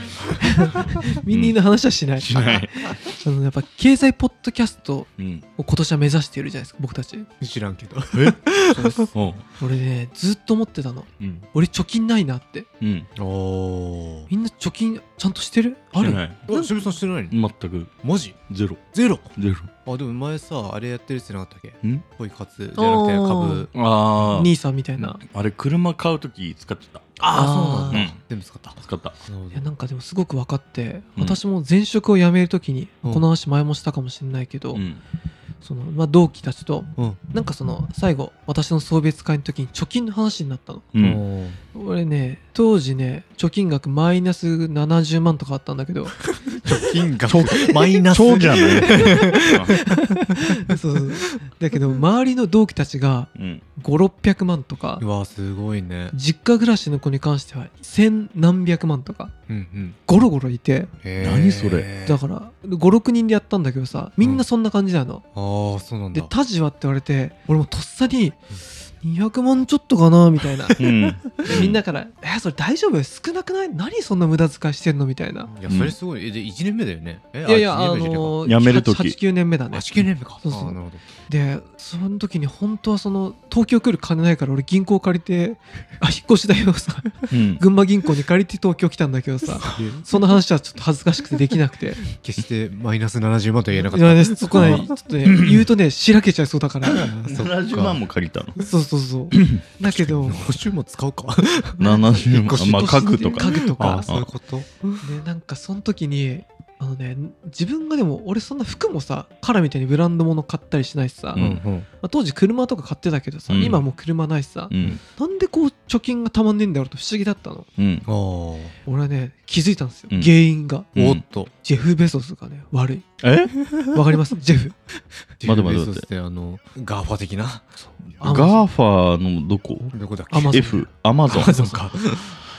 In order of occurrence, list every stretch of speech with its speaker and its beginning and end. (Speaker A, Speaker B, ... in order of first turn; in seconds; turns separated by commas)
Speaker A: 0.3-7.3, Speaker B: 1.3-1.6, Speaker B: 2.2-2.9, Speaker C: 2.3-2.9, Speaker B: 5.2-5.5, Speaker C: 7.4-9.1, Speaker A: 8.7-12.7, Speaker B: 9.1-9.4, Speaker B: 11.2-11.5, Speaker B: 12.8-13.1, Speaker C: 13.2-14.3, Speaker A: 14.3-16.7, Speaker B: 15.9-17.9, Speaker C: 16.5-17.4, Speaker C: 18.0-18.4, Speaker B: 18.5-19.7, Speaker C: 18.9-19.3, Speaker C: 19.8-23.7, Speaker A: 22.7-23.7, Speaker B: 23.7-24.6, Speaker A: 24.3-25.2, Speaker B: 25.3-27.1, Speaker C: 27.2-29.6, Speaker A: 27.3-28.1, Speaker B: 27.9-28.2, Speaker B: 28.8-29.2, Speaker A: 29.5-34.8, Speaker B: 34.7-35.0, Speaker A: 35.6-40.9, Speaker B: 40.9-41.2, Speaker C: 41.0-41.6, Speaker A: 41.7-46.2, Speaker C: 46.5-49.9, Speaker B: 47.3-49.7, Speaker A: 48.8-55.0, Speaker B: 53.3-53.6, Speaker C: 55.0-56.1, Speaker A: 56.1-59.3, Speaker C: 59.5-60.0, Speaker A: 60.0-60.9, Speaker C: 61.0-62.2, Speaker B: 61.2-61.9, Speaker A: 62.0-65.2, Speaker C: 65.3-66.3, Speaker A: 66.1-70.8, Speaker C: 70.7-71.7, Speaker B: 70.8-71.8, Speaker A: 71.4-75.5, Speaker C: 75.5-78.4, Speaker B: 75.7-76.0, Speaker A: 77.4-79.8, Speaker B: 78.4-79.2, Speaker C: 79.7-81.0, Speaker A: 80.4-80.8, Speaker A: 81.3-92.0, Speaker B: 87.3-87.6, Speaker C: 89.6-90.3, Speaker C: 92.0-95.6, Speaker A: 93.8-97.1, Speaker B: 94.5-94.8, Speaker C: 96.9-98.0, Speaker B: 97.2-98.6, Speaker A: 98.6-100.4, Speaker B: 99.3-99.6, Speaker C: 99.8-104.8, Speaker B: 101.8-104.3, Speaker A: 102.5-104.1, Speaker A: 105.0-111.4, Speaker B: 111.3-111.6, Speaker C: 111.3-111.9, Speaker A: 112.0-117.7, Speaker B: 113.5-113.8, Speaker B: 114.7-115.0, Speaker C: 114.8-115.0, Speaker B: 117.8-118.1, Speaker C: 118.0-118.7, Speaker A: 118.8-120.9, Speaker B: 120.1-120.3, Speaker B: 120.9-121.2, Speaker C: 120.9-121.5, Speaker A: 121.6-123.1, Speaker B: 123.2-123.5, Speaker A: 123.8-124.8, Speaker C: 125.4-127.7, Speaker B: 125.4-126.1, Speaker B: 127.8-131.8, Speaker A: 128.2-128.7, Speaker C: 129.8-132.3, Speaker A: 130.3-130.8, Speaker A: 131.4-131.7